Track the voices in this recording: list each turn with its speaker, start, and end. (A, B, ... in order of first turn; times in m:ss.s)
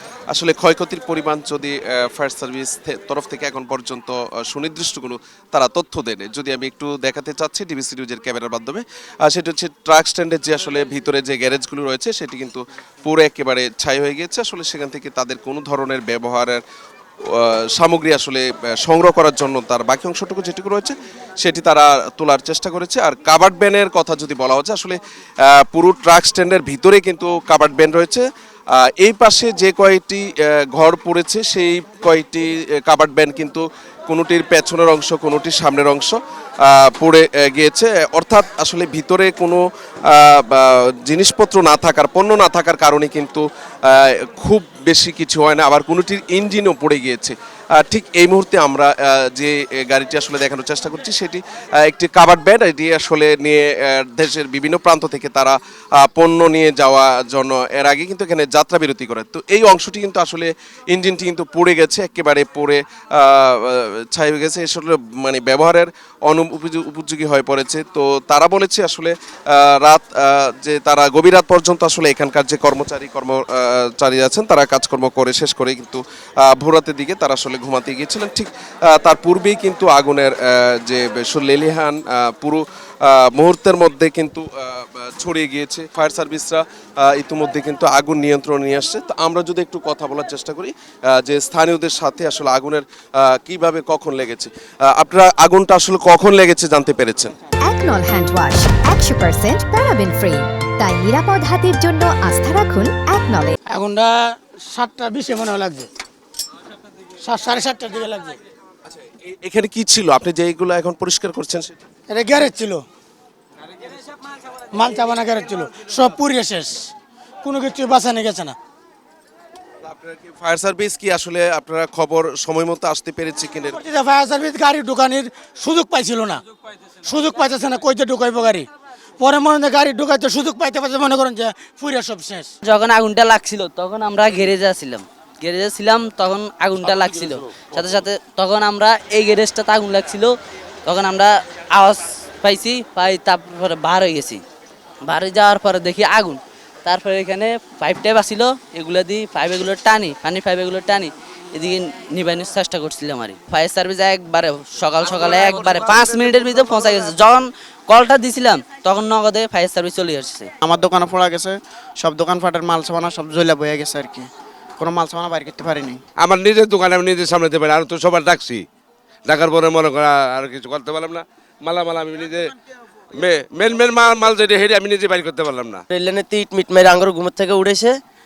0:00.3-0:16.6 A
0:17.3-0:28.2 A
0:28.8-1:37.3 A
1:37.7-1:43.5 B
1:43.7-1:45.9 C
1:47.2-1:48.4 C
1:49.0-1:51.7 A
1:52.1-1:52.8 C
1:54.7-1:56.9 C
1:57.4-1:58.6 C
1:59.8-2:03.8 A
2:03.8-2:06.4 C
2:07.0-2:08.7 C
2:09.2-2:12.5 C
2:12.6-2:20.3 D
2:20.8-2:24.4 D
2:25.0-2:40.5 D
2:40.6-2:44.3 E
2:44.8-2:46.0 E
2:46.2-2:48.6 F
2:49.2-2:52.5 F
2:53.2-2:55.8 F
2:55.9-2:58.0 G